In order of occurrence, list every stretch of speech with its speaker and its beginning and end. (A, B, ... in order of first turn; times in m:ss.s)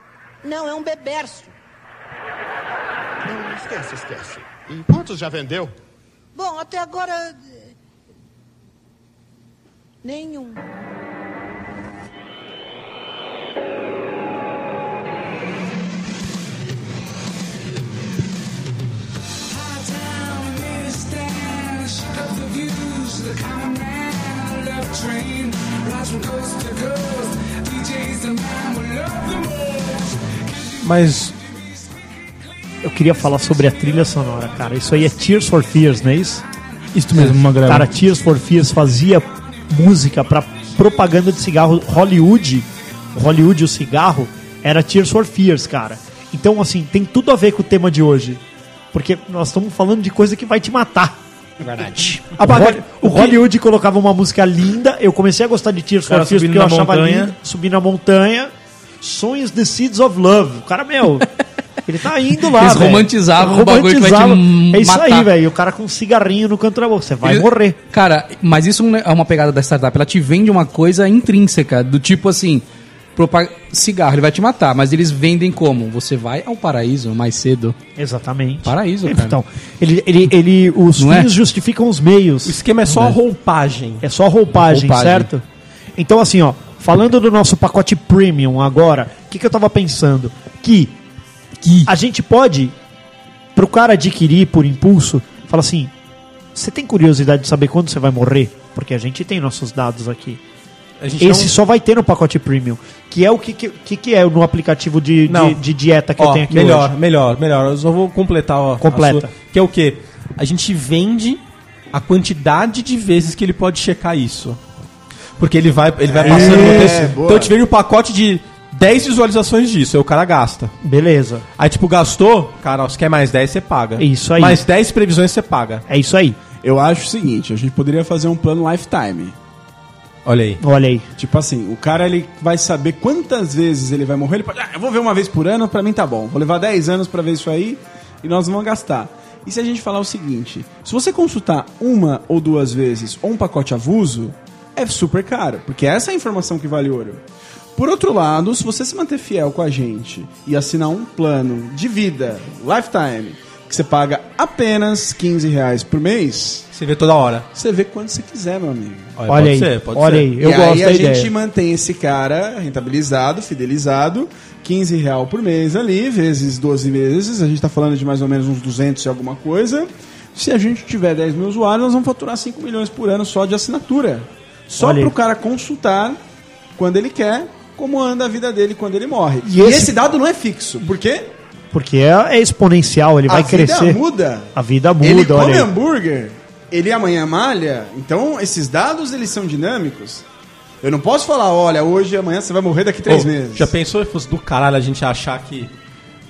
0:00.4-0:01.5 A
0:03.2-0:05.7 B
0:06.4-0:07.6 A
0:10.0-0:10.6 A
0:20.0-0:20.5 A
0:30.8-0:31.4 C
0:32.8-0:36.4 D
0:36.9-0:37.9 E
0:37.2-0:51.2 D
0:52.4-0:53.3 C
0:52.4-1:01.3 D
0:56.1-0:57.3 E
1:01.8-1:07.8 D
1:02.5-1:05.3 F
1:07.2-1:12.6 F
1:13.2-1:17.8 F
1:18.0-1:22.6 D
1:18.6-1:19.4 F
1:21.0-1:21.3 F
1:22.4-1:24.0 C
1:24.0-1:25.4 D
1:24.6-1:25.3 F
1:26.0-1:31.0 D
1:31.6-1:31.9 C
1:31.9-1:32.8 D
1:33.6-1:35.9 D
1:36.5-1:40.4 D
1:41.0-1:41.5 C
1:41.2-1:46.9 D
1:45.3-1:45.6 C
1:46.2-1:54.6 C
1:48.8-1:49.3 D
1:55.4-2:00.7 C
1:56.1-1:57.5 G
1:56.2-1:57.0 D
2:00.8-2:01.4 D
2:01.6-2:05.8 C
2:04.0-2:04.6 D
2:05.9-2:06.4 D
2:06.6-2:09.4 G
2:10.2-2:10.6 C
2:10.6-2:11.1 D
2:11.2-2:27.2 G
2:27.8-2:36.7 G
2:36.7-2:37.5 C
2:37.5-2:39.1 G
2:39.2-2:40.3 C
2:39.3-2:41.3 D
2:40.4-2:56.2 G
2:54.7-2:55.1 D
2:56.8-3:01.3 G
2:59.4-3:00.0 D
3:01.7-3:04.0 D
3:03.3-3:04.5 G
3:04.5-3:05.7 D
3:05.0-3:10.2 G
3:10.8-3:13.7 G
3:13.1-3:15.7 C